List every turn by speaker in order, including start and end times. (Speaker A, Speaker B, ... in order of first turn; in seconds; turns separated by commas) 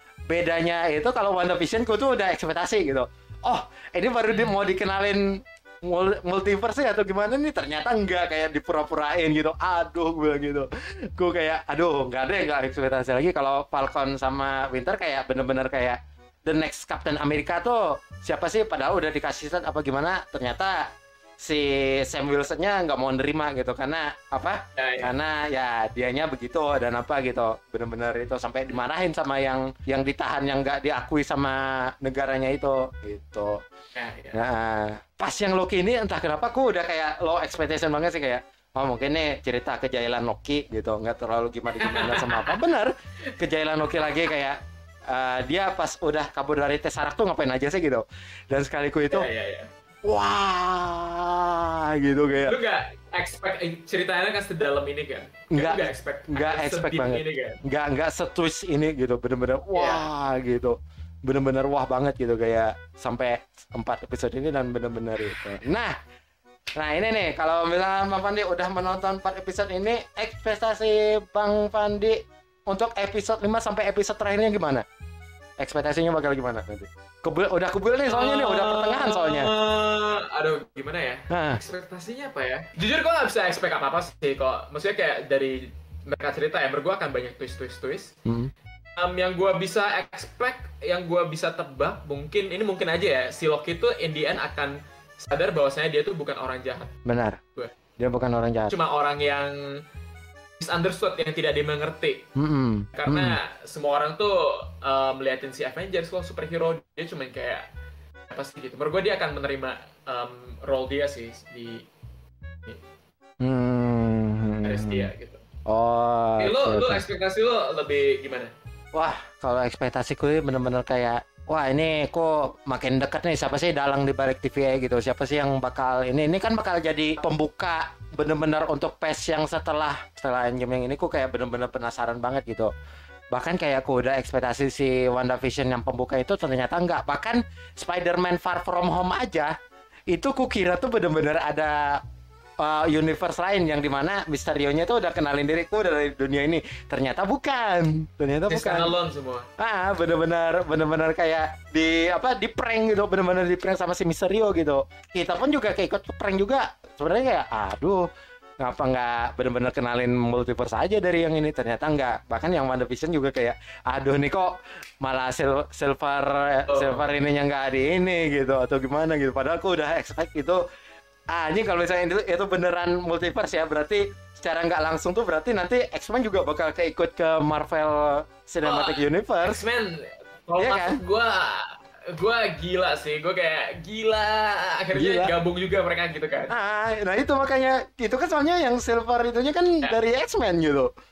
Speaker A: 0.3-33.6, Speaker B: 4.3-4.6, Speaker B: 24.8-25.1, Speaker B: 33.9-34.4, Speaker A: 34.3-49.3, Speaker B: 41.8-42.6, Speaker B: 49.1-49.7, Speaker A: 50.0-52.6, Speaker B: 52.5-57.6, Speaker A: 55.5-66.0, Speaker B: 59.7-60.1, Speaker A: 66.8-74.8, Speaker A: 75.6-79.5, Speaker B: 78.1-88.1, Speaker A: 81.3-81.6, Speaker A: 88.2-88.5, Speaker B: 89.0-96.9, Speaker A: 97.0-97.4, Speaker A: 98.0-98.7, Speaker B: 98.7-99.8, Speaker B: 100.6-102.3, Speaker A: 102.3-103.4, Speaker B: 102.9-107.7, Speaker B: 108.3-111.8, Speaker A: 113.4-115.1, Speaker B: 114.6-115.4, Speaker A: 115.7-117.0, Speaker B: 116.4-118.5, Speaker A: 118.9-132.7, Speaker A: 133.3-139.5, Speaker A: 140.1-142.0, Speaker A: 142.6-148.9, Speaker B: 148.5-149.5, Speaker A: 149.6-158.1, Speaker A: 158.6-170.6, Speaker B: 166.7-167.1, Speaker A: 171.3-179.6, Speaker B: 178.6-186.5, Speaker A: 180.6-181.0, Speaker A: 184.9-185.3, Speaker A: 186.5-190.9